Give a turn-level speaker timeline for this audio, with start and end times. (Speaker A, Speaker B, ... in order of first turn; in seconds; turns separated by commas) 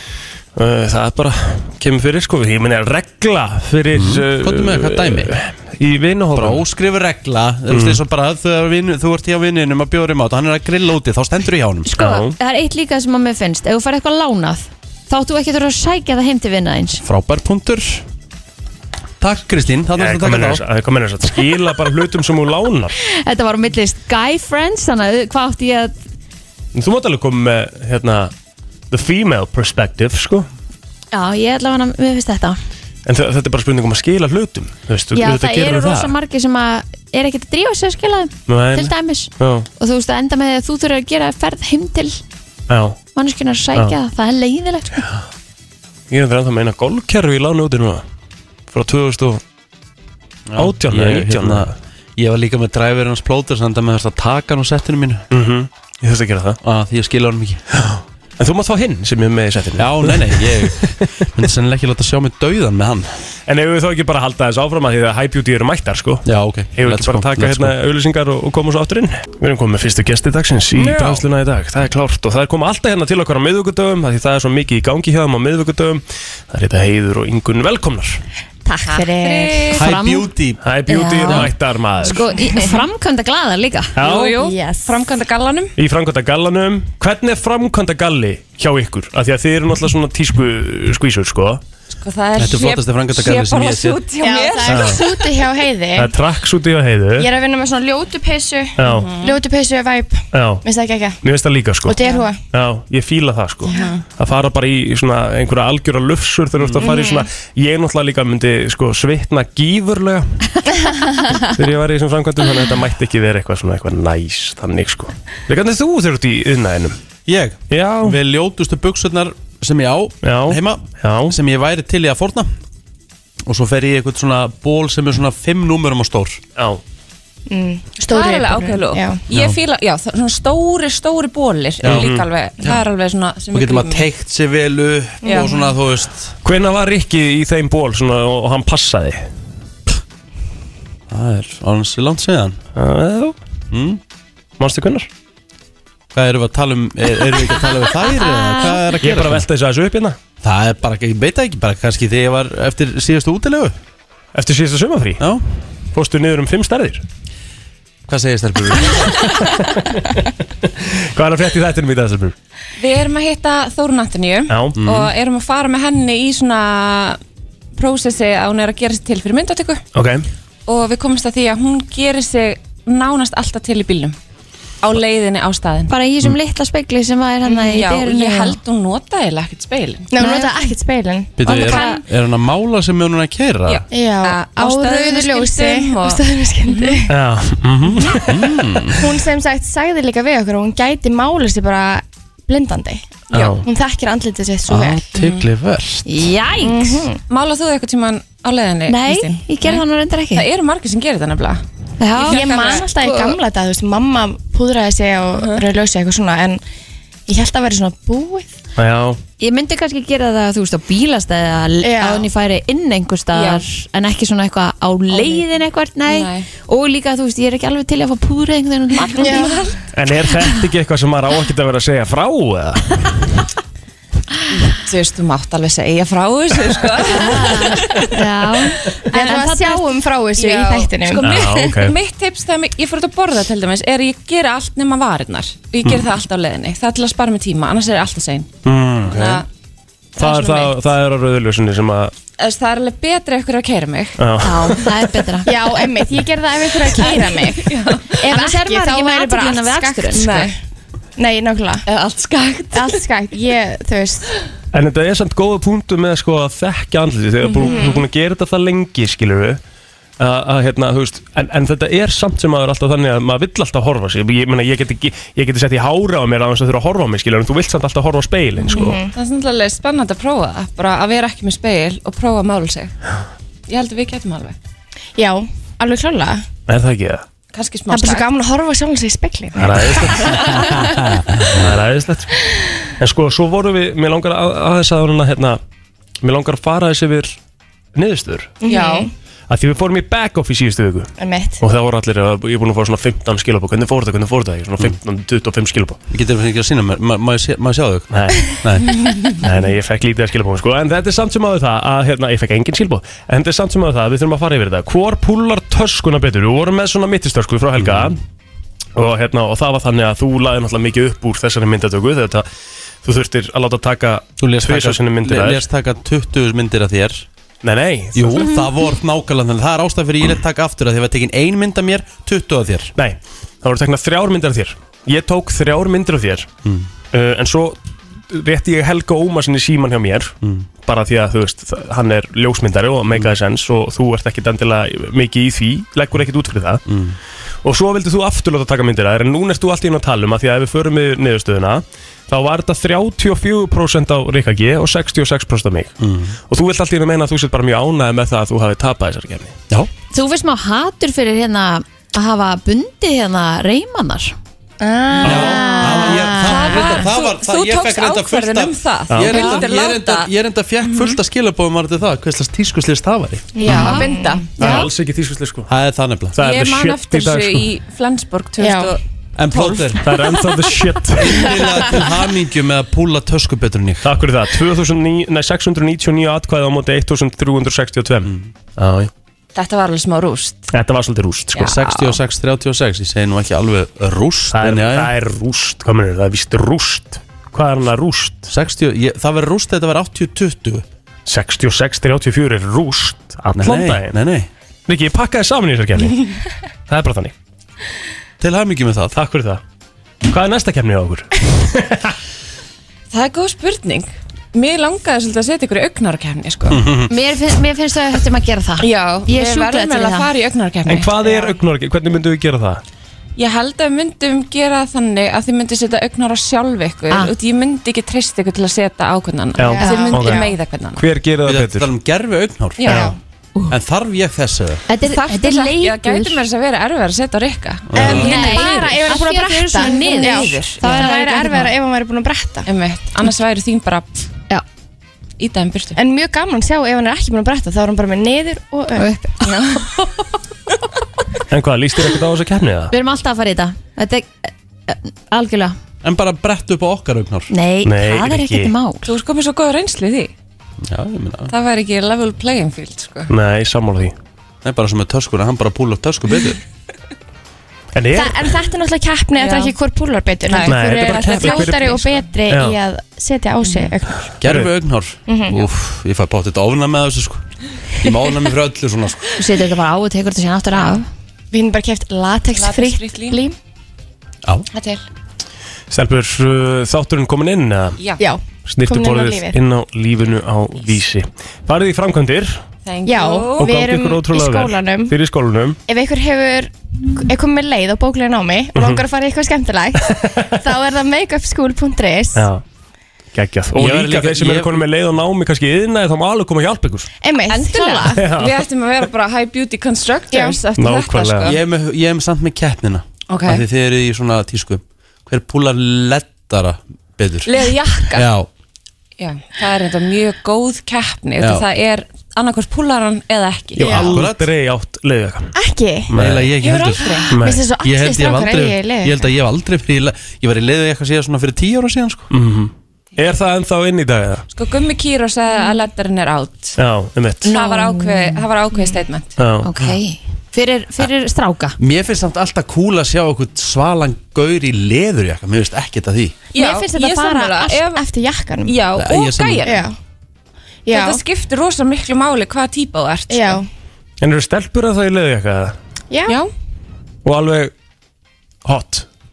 Speaker A: 0.6-6.6, Speaker B: 3.9-5.3, Speaker B: 6.3-11.9, Speaker A: 7.7-8.0, Speaker C: 11.8-17.0, Speaker A: 12.0-12.3, Speaker B: 17.0-18.0, Speaker B: 19.2-20.6, Speaker A: 20.0-22.9, Speaker C: 23.0-25.9, Speaker A: 26.7-28.3, Speaker A: 28.9-30.5, Speaker C: 31.1-32.6, Speaker A: 33.0-36.1, Speaker C: 35.1-42.2, Speaker A: 38.5-39.7, Speaker A: 42.7-43.0, Speaker C: 43.1-45.0, Speaker A: 46.1-48.0, Speaker A: 48.7-49.4, Speaker B: 50.5-55.2, Speaker A: 50.6-51.7, Speaker A: 55.3-56.6, Speaker B: 56.6-57.6, Speaker A: 57.9-61.0, Speaker B: 59.8-63.1, Speaker A: 63.5-78.2, Speaker B: 66.2-67.7, Speaker B: 70.7-71.2, Speaker D: 78.9-79.7, Speaker E: 78.9-79.8, Speaker C: 79.6-80.3, Speaker B: 79.7-80.6, Speaker A: 80.6-82.3, Speaker C: 80.9-83.9, Speaker A: 84.0-84.3, Speaker E: 84.0-85.7, Speaker D: 84.3-85.0, Speaker A: 85.8-91.6, Speaker E: 92.0-95.4, Speaker B: 92.4-94.0, Speaker D: 94.2-96.1, Speaker A: 94.7-95.0, Speaker A: 95.9-97.3, Speaker D: 97.2-101.2, Speaker A: 98.8-99.1, Speaker E: 98.9-99.4, Speaker A: 100.3-100.6, Speaker A: 101.2-102.0, Speaker D: 101.9-102.4, Speaker A: 102.5-110.6, Speaker D: 103.7-104.0, Speaker E: 103.7-104.0, Speaker B: 106.6-106.8, Speaker D: 106.8-107.3, Speaker D: 110.8-111.3, Speaker A: 111.4-117.0, Speaker B: 117.2-122.5, Speaker A: 117.7-118.2, Speaker A: 120.2-121.3, Speaker B: 123.5-126.4, Speaker A: 126.5-126.8, Speaker D: 127.5-129.2, Speaker E: 128.1-134.0, Speaker B: 129.3-129.6, Speaker B: 131.8-132.1, Speaker A: 131.8-132.3, Speaker B: 133.5-136.3, Speaker D: 135.2-135.5, Speaker E: 135.3-135.6, Speaker A: 136.4-139.3, Speaker B: 141.1-142.6, Speaker A: 142.7-143.3, Speaker B: 143.7-144.0, Speaker A: 144.6-145.1, Speaker B: 146.1-149.4, Speaker C: 148.3-148.6, Speaker A: 149.0-150.2, Speaker B: 150.4-153.8, Speaker A: 154.3-155.2, Speaker A: 155.9-157.0, Speaker B: 158.1-159.2, Speaker A: 159.1-160.2, Speaker A: 160.8-162.3, Speaker E: 162.8-167.2, Speaker A: 164.5-164.8, Speaker B: 164.8-165.1, Speaker E: 167.7-169.8, Speaker A: 169.9-170.3, Speaker E: 170.7-174.2, Speaker E: 174.8-175.9, Speaker C: 175.9-178.6, Speaker E: 177.5-180.1, Speaker D: 180.1-181.8, Speaker C: 180.2-180.5, Speaker B: 181.4-183.8, Speaker C: 181.4-182.0, Speaker E: 183.7-187.0, Speaker D: 183.9-187.1, Speaker A: 187.1-188.5, Speaker B: 188.2-189.0, Speaker D: 189.0-195.1, Speaker A: 193.3-193.6, Speaker E: 193.3-193.6, Speaker B: 194.7-196.3, Speaker C: 196.1-197.0, Speaker D: 196.6-197.2, Speaker E: 197.3-201.6, Speaker C: 198.9-200.4, Speaker C: 202.0-203.3, Speaker E: 202.2-202.9, Speaker D: 202.3-206.6, Speaker E: 205.3-205.6, Speaker D: 207.3-208.5, Speaker A: 208.8-209.2, Speaker C: 209.4-219.6, Speaker D: 211.8-212.3, Speaker E: 213.3-213.6, Speaker E: 215.1-215.4, Speaker E: 216.1-216.5, Speaker E: 219.1-219.8, Speaker D: 219.2-219.7, Speaker A: 219.9-223.1, Speaker E: 224.5-228.1, Speaker C: 227.1-229.8, Speaker D: 229.1-231.3, Speaker E: 230.3-238.5, Speaker A: 231.2-231.9, Speaker B: 238.7-239.1, Speaker A: 239.0-239.4, Speaker E: 239.1-239.4, Speaker E: 240.2-240.7, Speaker A: 240.2-242.1, Speaker E: 242.4-244.9, Speaker A: 244.2-244.8, Speaker C: 244.4-245.5, Speaker D: 245.4-250.5, Speaker E: 246.8-248.2, Speaker C: 248.2-250.5, Speaker E: 250.1-250.5, Speaker D: 251.2-251.8, Speaker E: 251.9-253.0, Speaker D: 252.7-254.3, Speaker A: 254.7-259.6, Speaker E: 257.5-257.9, Speaker D: 257.6-258.0, Speaker A: 260.2-269.0, Speaker D: 268.7-269.1, Speaker E: 268.7-272.9, Speaker E: 273.7-274.6, Speaker D: 275.1-276.4, Speaker A: 276.7-277.2, Speaker E: 277.5-278.3, Speaker D: 277.9-280.3, Speaker A: 279.6-280.7, Speaker B: 280.5-280.8, Speaker A: 281.5-282.3, Speaker A: 283.0-285.6, Speaker A: 286.2-287.4, Speaker A: 287.9-288.6, Speaker D: 288.6-289.1, Speaker E: 288.7-289.0, Speaker A: 289.5-296.0, Speaker D: 291.2-291.6, Speaker B: 296.1-298.9, Speaker A: 298.1-298.6, Speaker E: 299.0-299.3, Speaker A: 299.4-308.2, Speaker B: 307.8-308.2, Speaker A: 308.9-312.5, Speaker A: 313.0-315.6, Speaker B: 314.4-317.3, Speaker A: 317.6-318.5, Speaker B: 318.1-322.9, Speaker A: 322.9-326.5, Speaker A: 327.1-327.8, Speaker A: 328.3-330.3, Speaker A: 330.9-336.8, Speaker B: 336.9-337.2, Speaker A: 337.6-345.9, Speaker B: 346.0-346.4, Speaker A: 346.5-349.5, Speaker C: 350.1-354.3, Speaker D: 354.8-357.0, Speaker B: 355.2-363.6, Speaker C: 355.3-356.1, Speaker E: 356.3-360.3, Speaker A: 359.1-359.5, Speaker E: 360.8-361.2, Speaker D: 363.6-364.7, Speaker E: 363.7-364.8, Speaker C: 363.8-364.1, Speaker A: 364.6-365.7, Speaker B: 365.7-366.3, Speaker A: 366.3-367.7, Speaker E: 366.4-369.0, Speaker D: 368.6-369.0, Speaker B: 369.4-370.0, Speaker E: 369.5-369.9, Speaker A: 370.0-371.7, Speaker B: 371.1-374.0, Speaker A: 374.0-379.1, Speaker E: 379.5-380.6, Speaker A: 380.7-381.7, Speaker E: 381.6-382.2, Speaker B: 381.6-385.1, Speaker A: 384.5-388.5, Speaker B: 388.5-390.9, Speaker A: 391.2-394.2, Speaker B: 393.5-394.5, Speaker A: 394.9-396.3, Speaker A: 396.9-397.3, Speaker B: 398.4-399.1, Speaker A: 399.1-399.6, Speaker A: 400.3-402.1, Speaker E: 403.1-406.9, Speaker B: 406.7-407.1, Speaker C: 407.1-410.3, Speaker E: 408.8-411.1, Speaker A: 410.9-412.8, Speaker E: 413.4-421.0, Speaker A: 419.6-421.9, Speaker D: 419.6-420.5, Speaker C: 419.8-420.2, Speaker B: 421.4-422.9, Speaker D: 422.8-423.1, Speaker A: 422.9-423.1, Speaker B: 423.7-424.8, Speaker C: 424.9-426.4, Speaker E: 425.1-431.7, Speaker B: 427.9-428.3, Speaker D: 428.0-432.7, Speaker C: 428.0-431.6, Speaker E: 432.7-434.3, Speaker E: 435.4-435.9, Speaker D: 435.9-439.1, Speaker C: 439.0-440.0, Speaker E: 439.4-439.8, Speaker A: 441.5-442.9, Speaker C: 442.9-445.8, Speaker B: 446.0-447.5, Speaker C: 447.5-449.1, Speaker A: 447.8-448.7, Speaker E: 449.0-450.3, Speaker B: 450.8-451.5, Speaker E: 451.5-453.3, Speaker A: 453.3-454.1, Speaker B: 454.6-456.6, Speaker A: 457.9-458.5, Speaker D: 458.1-464.3, Speaker E: 459.4-459.7, Speaker E: 460.4-462.3, Speaker A: 460.6-462.0, Speaker A: 462.5-462.8, Speaker E: 463.6-463.9, Speaker B: 464.4-469.3, Speaker A: 464.4-464.7, Speaker D: 465.3-465.6, Speaker C: 469.4-471.0, Speaker D: 471.5-473.5, Speaker E: 472.5-473.4, Speaker E: 474.7-475.0, Speaker A: 475.9-478.0, Speaker E: 478.0-478.2, Speaker D: 478.2-479.6, Speaker A: 478.6-482.6, Speaker E: 482.8-483.7, Speaker D: 483.1-485.1, Speaker A: 483.6-485.8, Speaker D: 485.9-492.5, Speaker A: 488.7-489.0, Speaker A: 490.1-490.5, Speaker A: 492.3-492.6, Speaker A: 493.3-497.1, Speaker B: 493.7-494.8, Speaker D: 497.2-498.3, Speaker E: 497.5-501.6, Speaker A: 498.1-498.6, Speaker D: 500.3-500.6, Speaker A: 500.8-501.5, Speaker B: 501.4-507.5, Speaker E: 503.3-503.6, Speaker E: 507.4-508.3, Speaker B: 508.1-508.5, Speaker E: 509.2-514.0, Speaker B: 511.4-511.6, Speaker A: 513.8-515.5, Speaker D: 513.8-514.1, Speaker B: 514.0-514.5, Speaker D: 515.5-516.1, Speaker A: 516.1-516.5, Speaker B: 516.1-517.1, Speaker E: 516.6-517.4, Speaker D: 517.0-519.2, Speaker A: 517.3-517.6, Speaker B: 517.8-522.3, Speaker A: 522.3-524.4, Speaker E: 524.5-526.7, Speaker A: 526.8-527.5, Speaker E: 527.4-529.4, Speaker C: 527.6-528.4, Speaker A: 529.4-529.7, Speaker C: 529.6-531.8, Speaker B: 531.8-536.4, Speaker E: 536.5-538.0, Speaker D: 536.6-538.9, Speaker E: 538.6-539.8, Speaker B: 539.0-539.8, Speaker D: 539.6-540.0, Speaker D: 540.9-541.2, Speaker E: 540.9-543.6, Speaker D: 543.3-543.7, Speaker A: 544.2-545.7, Speaker D: 546.1-546.4, Speaker A: 547.2-547.7, Speaker A: 548.6-549.0